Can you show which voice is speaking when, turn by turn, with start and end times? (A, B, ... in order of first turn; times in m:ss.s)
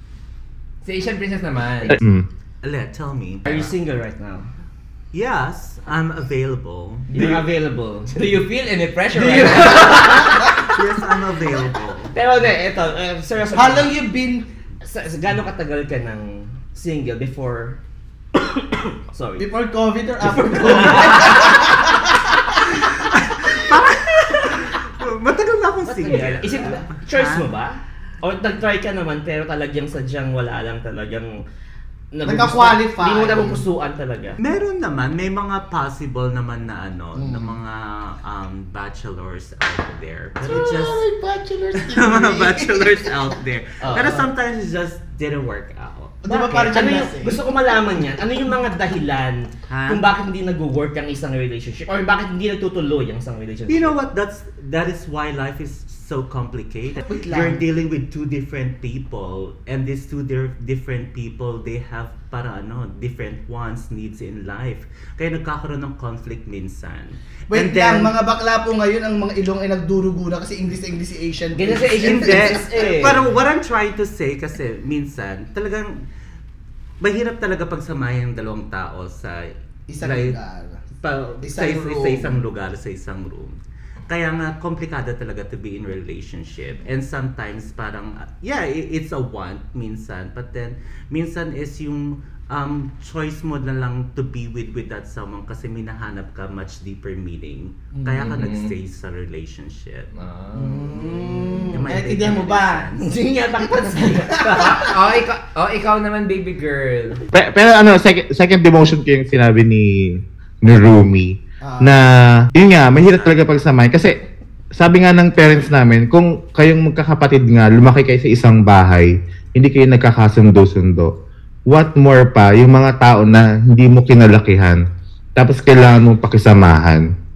0:00.8-0:02.0 A
0:01.9-0:02.2 B
0:02.6-0:03.7 C
0:03.5-0:04.5 D
0:05.1-0:07.4 C
0:07.1-0:08.3 D
0:08.1-0:10.4 A
0:09.1-0:10.5 D
0:10.5-0:12.1 C
0:12.1-0:13.9 D
0:13.5-0:14.5 E
0:14.8-0:17.8 D
0:18.7-0:19.4 D
0:19.4-0:23.7 E
0:20.2-0:21.6 D
0:23.1-0:27.5 C
0:25.8-0:26.8 A
0:26.1-0:31.4 D
0:32.1-0:34.4 D
0:32.2-0:33.7 E
0:34.4-0:41.0 C
0:37.2-0:37.6 E
0:40.4-0:43.2 E
0:41.8-0:46.2 C
0:43.8-0:44.3 D
0:43.9-0:44.2 E
0:46.2-0:47.4 E
0:46.3-0:54.0 D
0:49.7-0:50.1 C
0:53.7-1:08.1 C
0:57.0-0:57.6 E
1:07.5-1:13.2 E
1:11.6-1:13.2 D
1:12.0-1:16.0 C
1:17.0-1:20.4 C
1:19.9-1:20.8 E
1:21.0-1:40.1 C
1:21.4-1:22.4 E
1:38.0-1:38.3 E
1:38.2-1:38.7 A
1:40.1-1:41.8 A
1:40.6-1:42.9 E
1:41.7-1:43.1 C
1:43.0-1:45.0 D
1:44.3-1:44.9 E
1:44.6-1:47.2 A
1:47.3-1:54.1 B
1:51.6-1:52.0 E
1:52.9-1:53.4 C
1:54.8-2:01.1 B
2:01.7-2:04.8 B
2:05.4-2:07.1 B